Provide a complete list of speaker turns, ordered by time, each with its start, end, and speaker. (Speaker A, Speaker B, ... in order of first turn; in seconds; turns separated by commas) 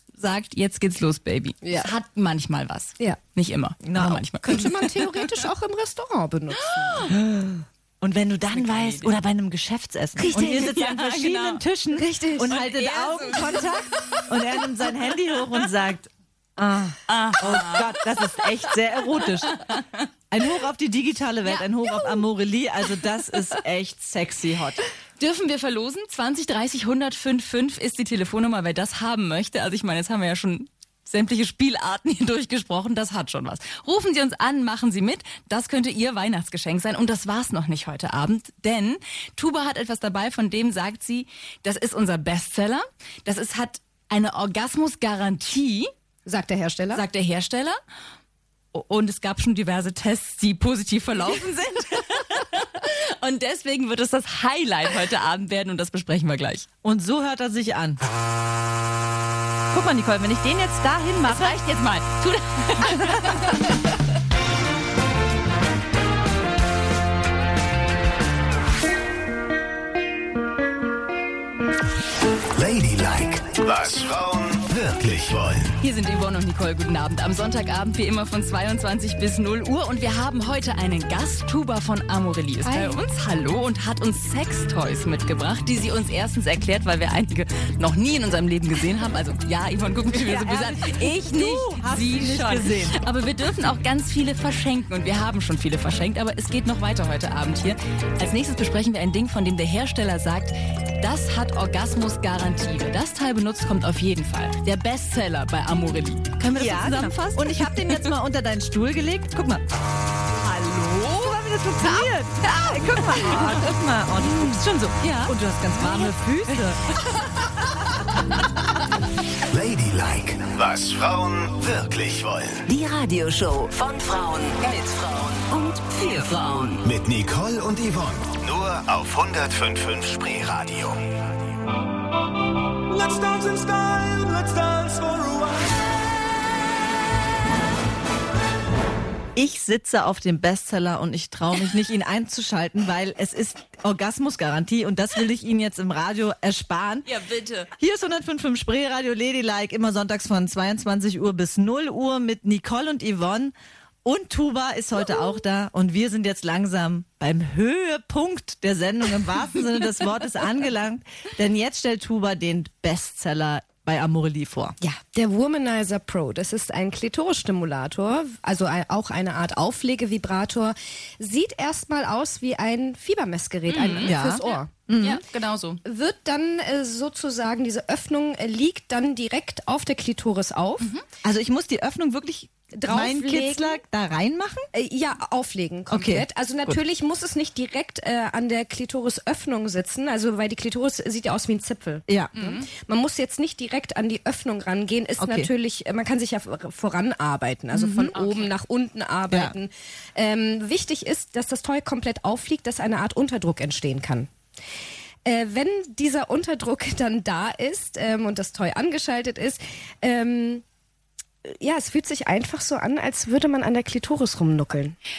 Speaker A: 0.1-5.3, Speaker B: 1.6-1.9, Speaker C: 3.9-4.2, Speaker B: 4.5-7.0, Speaker A: 6.6-7.1, Speaker C: 8.0-19.5, Speaker A: 8.5-9.1, Speaker B: 10.2-10.7, Speaker A: 10.2-11.6, Speaker B: 11.9-12.6, Speaker A: 12.5-14.9, Speaker A: 17.1-18.1, Speaker A: 18.8-20.1, Speaker C: 20.3-24.8, Speaker A: 21.4-22.2, Speaker A: 25.2-45.9, Speaker B: 46.3-47.0, Speaker A: 46.9-47.8, Speaker A: 48.7-56.7, Speaker C: 56.8-58.0, Speaker C: 59.7-61.5, Speaker A: 61.2-63.7, Speaker D: 72.5-75.8, Speaker A: 75.8-108.1, Speaker B: 82.7-83.0, Speaker C: 90.1-92.9, Speaker C: 106.6-109.6, Speaker A: 110.4-117.2, Speaker C: 111.1-116.8, Speaker D: 119.5-122.7, Speaker E: 122.7-126.9, Speaker D: 126.8-131.2, Speaker F: 132.9-135.7, Speaker C: 139.4-147.0, Speaker A: 147.1-147.7, Speaker C: 147.8-153.5, Speaker C: 154.1-164.8, Speaker B: 164.8-174.8, Speaker A: 173.7-175.8, Speaker C: 174.1-175.2, Speaker B: 175.8-180.9, Speaker C: 181.2-184.7, Speaker B: 182.8-183.8, Speaker B: 184.7-204.3, Speaker C: 185.9-186.8, Speaker C: 192.1-192.3, Speaker A: 192.4-192.7, Speaker C: 195.2-195.5, Speaker C: 197.7-198.1, Speaker A: 198.1-198.5, Speaker B: 205.3-210.6, Speaker B: 211.4-215.0